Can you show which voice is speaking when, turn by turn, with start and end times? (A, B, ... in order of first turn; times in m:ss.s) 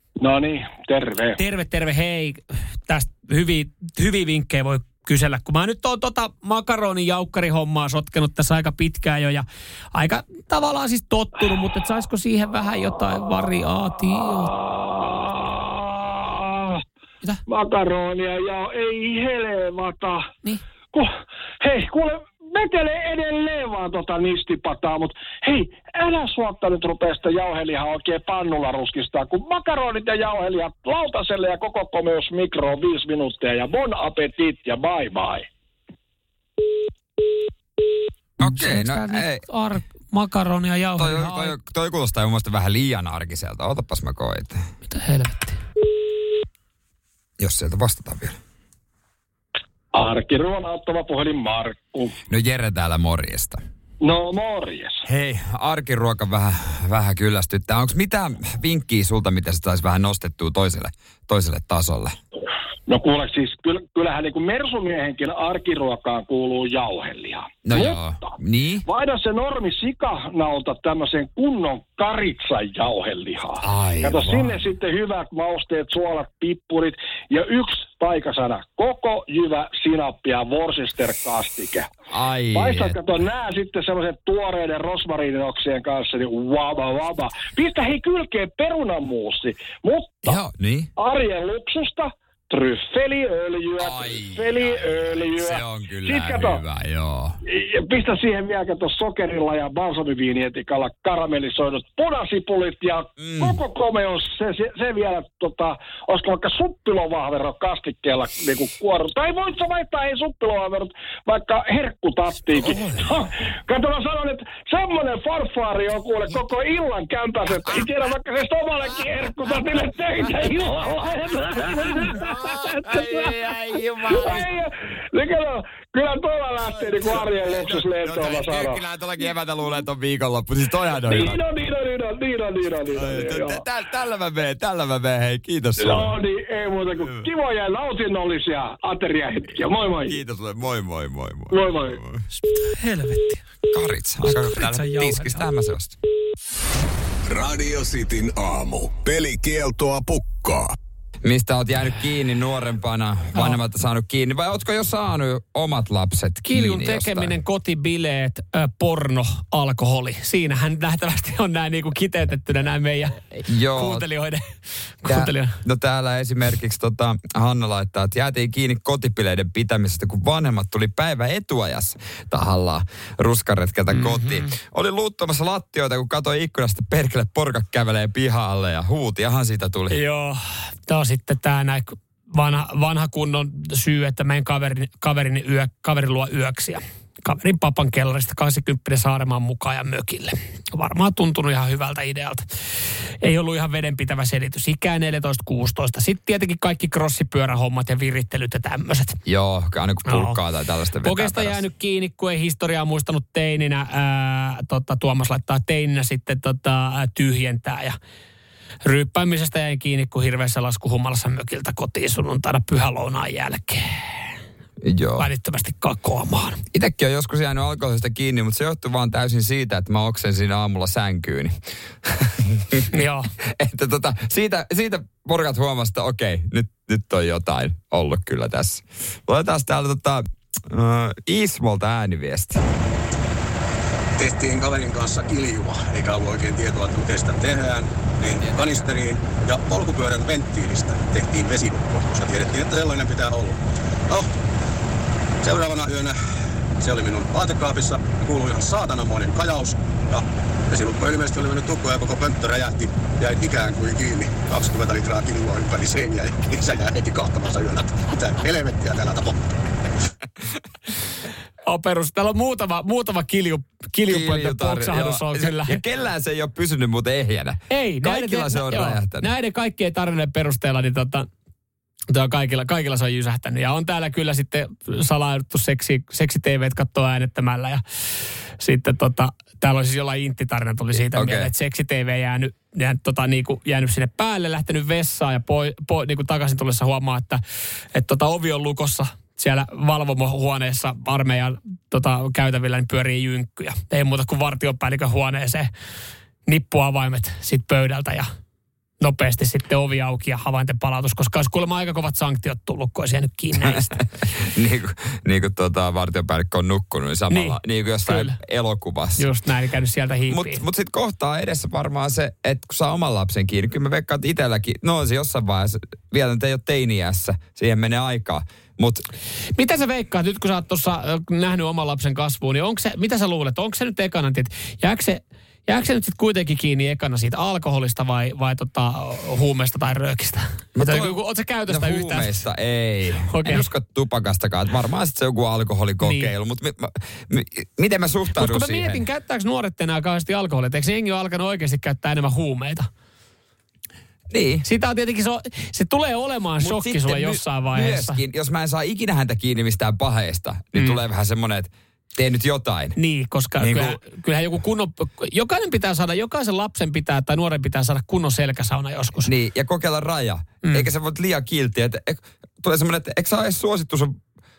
0:00.2-0:01.4 A
0:01.4-0:14.6 B
0:14.7-0:16.8 A
0:17.5-0:20.2 A
0:21.6-0:35.5 A
0:38.4-0:39.4 C
0:38.4-0:41.5 B
0:41.0-0:44.6 C
0:44.9-0:45.6 B
0:47.4-0:48.4 C
0:49.9-0:52.1 A
0:52.3-0:53.6 C
0:54.0-0:55.0 A
0:55.0-1:02.2 C
1:02.9-1:21.9 A
1:07.6-1:08.9 C
1:13.6-1:14.7 C
1:22.1-1:23.0 C
1:22.5-1:30.4 A
1:30.2-1:30.9 C
1:31.0-1:36.6 A
1:33.8-1:37.4 C
1:37.5-2:03.3 A
1:43.2-1:43.6 C
1:52.6-1:53.2 C
2:00.2-2:00.8 C
2:01.7-2:04.5 C
2:04.1-2:08.8 A
2:06.6-2:11.4 C
2:11.1-2:13.6 A
2:12.9-2:16.2 C
2:15.8-2:20.2 A
2:17.0-2:17.3 C
2:20.0-2:22.2 C
2:21.5-2:22.0 A
2:22.3-2:23.4 B
2:23.7-2:26.0 C
2:24.2-2:25.4 B
2:27.3-2:30.8 D
2:31.2-2:37.4 C
2:36.4-2:44.4 B
2:43.5-2:44.1 C
2:45.0-2:45.6 B
2:45.1-3:00.0 C
2:53.9-2:54.5 B
2:59.9-3:12.4 B
3:13.2-3:19.2 B
3:19.3-3:21.6 C
3:20.1-3:20.4 B
3:21.0-3:28.0 B
3:28.8-3:34.4 B
3:34.8-3:35.3 C
3:35.2-3:36.6 B
3:36.7-3:41.5 C
3:42.0-3:42.9 C
3:42.9-3:43.3 B
3:43.4-3:52.6 C
3:54.2-4:04.3 E
4:05.4-4:06.2 E
4:06.8-4:19.4 E
4:21.6-4:25.8 B
4:24.1-4:29.3 C
4:27.7-4:31.3 B
4:32.1-4:37.8 B
4:38.6-4:47.4 B
4:41.1-4:41.5 C
4:47.9-4:55.7 B
4:56.5-4:58.3 B
4:59.0-5:04.0 B
5:03.6-5:09.3 C
5:07.3-5:08.4 B
5:09.2-5:10.6 B
5:10.3-5:19.0 C
5:19.6-5:32.4 B
5:30.8-5:39.0 C
5:33.3-5:33.7 B
5:36.0-5:36.3 B
5:38.4-5:42.9 B
5:44.3-5:44.7 C
5:44.6-5:48.2 B
5:46.6-5:53.0 C
5:50.8-5:51.0 B
5:53.0-5:59.3 B
5:53.6-5:54.0 C
5:59.2-6:04.1 C